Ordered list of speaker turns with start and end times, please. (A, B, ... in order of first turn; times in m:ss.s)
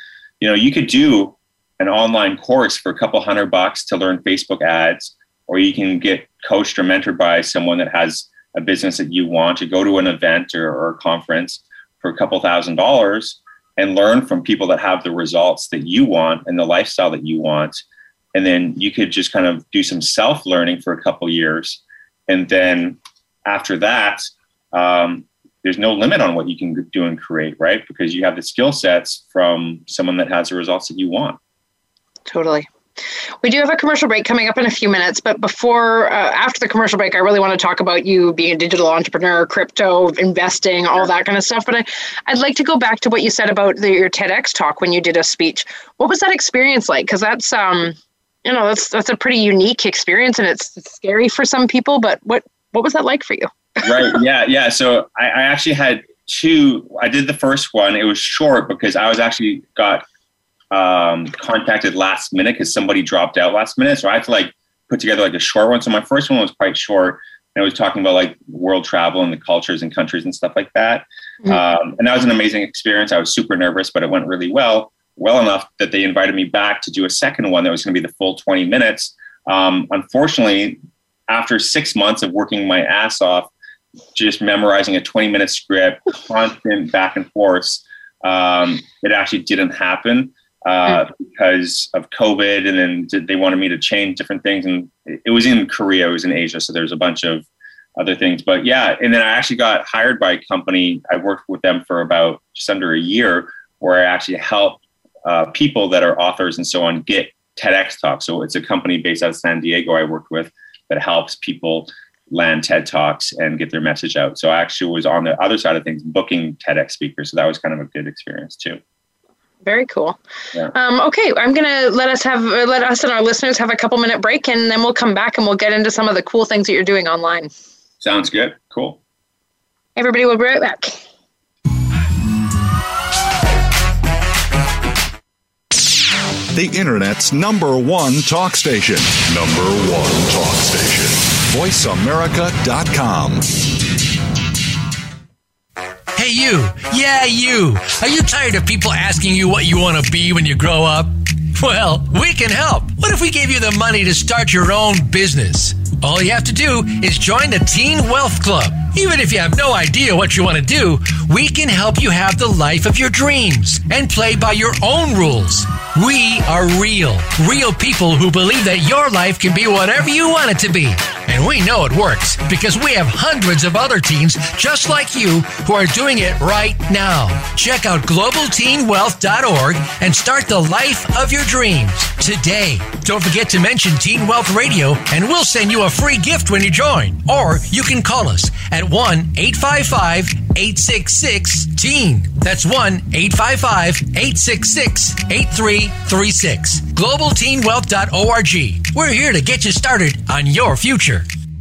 0:00.4-0:17.8 A
0:18.3-0:31.4 A
0:32.3-0:32.7 B
0:33.4-0:54.2 B
0:53.8-1:00.0 A
1:00.7-1:23.5 A
1:24.1-1:37.4 A
1:38.0-1:58.8 A
1:59.6-2:00.2 B
2:00.7-2:07.5 B
2:08.0-2:09.0 A
2:10.0-2:11.0 B
2:16.5-2:23.6 C
2:26.2-3:21.2 D